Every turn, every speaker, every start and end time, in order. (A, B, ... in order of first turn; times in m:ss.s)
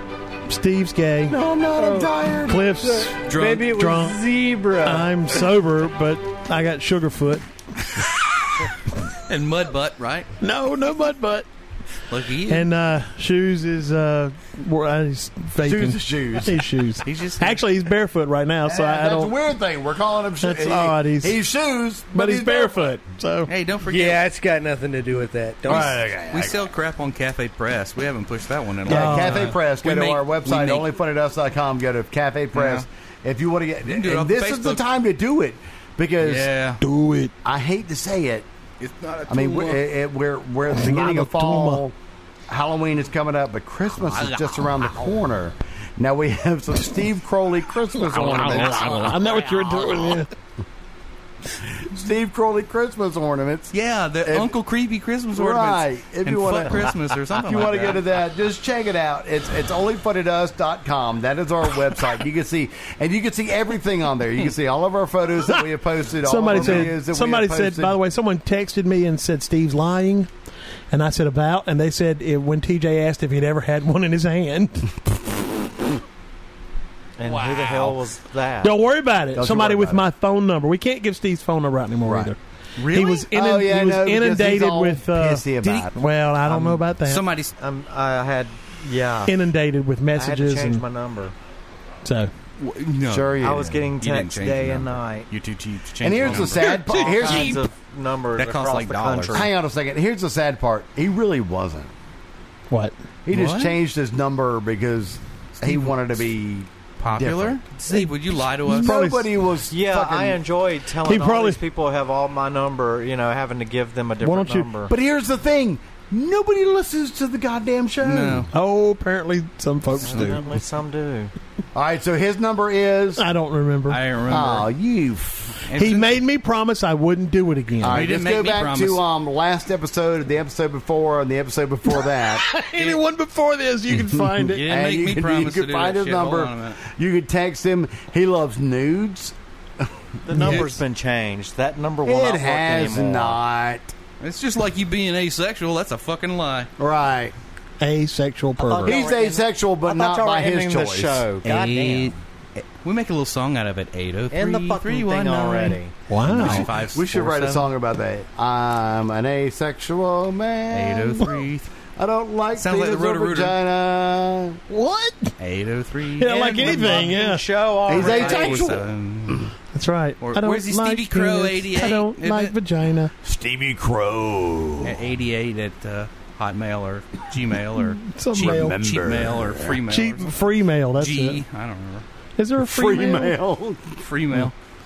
0:00.4-0:01.4 A
0:01.3-0:02.9 B
0:01.7-0:02.2 C
0:02.5-0:03.2 A
0:02.8-0:05.1 C
0:03.2-0:03.8 D
0:03.7-0:04.2 A
0:04.8-0:07.4 A
0:09.3-0:10.3 D
0:10.4-0:11.5 A
0:12.1-0:12.7 D
0:12.5-0:19.3 A
0:15.6-0:16.6 B
0:17.0-0:17.6 D
0:18.6-0:23.0 B
0:20.4-0:21.4 A
0:22.1-0:23.5 A
0:23.5-0:24.2 D
0:23.9-0:26.0 C
0:25.6-0:26.6 B
0:25.6-0:30.9 D
0:28.9-0:36.5 B
0:28.9-0:29.6 A
0:32.5-0:32.8 D
0:33.9-0:34.8 D
0:36.2-0:36.8 D
0:36.8-0:37.3 A
0:37.4-0:38.4 B
0:38.8-0:39.8 D
0:39.3-0:42.0 B
0:40.7-0:41.8 A
0:42.5-0:49.0 B
0:44.0-0:44.9 D
0:48.1-0:50.3 A
0:48.1-0:50.2 D
0:51.8-0:54.6 B
0:53.7-0:58.0 D
0:55.3-1:08.0 B
1:06.2-1:10.3 A
1:06.5-1:06.9 D
1:10.9-1:15.0 A
1:17.2-1:18.8 E
1:17.3-1:18.0 D
1:18.6-1:22.4 A
1:19.3-1:20.0 B
1:22.0-1:22.3 B
1:22.8-1:23.3 D
1:22.9-1:27.2 A
1:23.3-1:25.9 B
1:25.6-1:25.9 D
1:26.4-1:26.8 E
1:27.0-1:27.5 D
1:27.6-1:29.3 E
1:29.3-1:30.8 A
1:30.1-1:31.3 E
1:32.0-1:32.3 A
1:32.6-1:37.6 D
1:33.1-1:33.9 B
1:33.4-1:35.3 E
1:36.0-1:37.6 B
1:36.2-1:39.5 E
1:38.4-1:39.5 D
1:39.3-1:41.9 B
1:42.7-1:42.9 A
1:43.3-1:47.7 B
1:43.3-1:43.8 D
1:47.0-1:48.9 D
1:48.6-1:49.3 A
1:48.7-1:50.4 B
1:49.7-1:54.9 E
1:51.0-1:51.6 A
1:54.2-1:54.7 A
1:54.9-1:58.5 B
1:58.0-1:58.5 D
1:58.5-2:00.6 A
2:00.0-2:01.3 E
2:01.7-2:03.2 B
2:03.2-2:04.0 A
2:03.9-2:04.7 D
2:04.3-2:05.6 B
2:05.7-2:06.2 D
2:05.7-2:08.0 A
2:07.8-2:12.5 B
2:07.9-2:09.0 D
2:11.9-2:14.6 A
2:13.9-2:19.9 B
2:14.6-2:16.8 D
2:20.3-2:23.4 E
2:20.3-2:20.8 A
2:20.4-2:20.8 D
2:22.0-2:23.9 B
2:24.2-2:26.7 D
2:26.8-2:27.3 B
2:27.8-2:29.0 A
2:28.6-2:32.1 E
2:28.8-2:31.3 B
2:31.4-2:32.2 D
2:32.8-2:37.7 D
2:34.3-2:35.9 E
2:36.1-2:36.7 A
2:36.4-2:41.4 B
2:40.7-2:41.7 D
2:42.0-2:44.6 B
2:42.6-2:43.6 D
2:44.7-2:45.3 A
2:45.4-2:47.1 D
2:46.2-2:47.4 A
2:46.6-2:48.8 E
2:47.9-2:49.4 B
2:47.9-2:49.5 D
2:49.7-2:53.1 A
2:50.2-2:52.5 D
2:53.2-2:55.0 B
2:54.8-3:00.3 D
2:58.0-2:58.8 A
2:58.3-2:59.8 B
2:59.9-3:01.4 A
3:01.0-3:02.0 D
3:02.4-3:03.4 A
3:02.6-3:04.0 B
3:04.0-3:04.5 D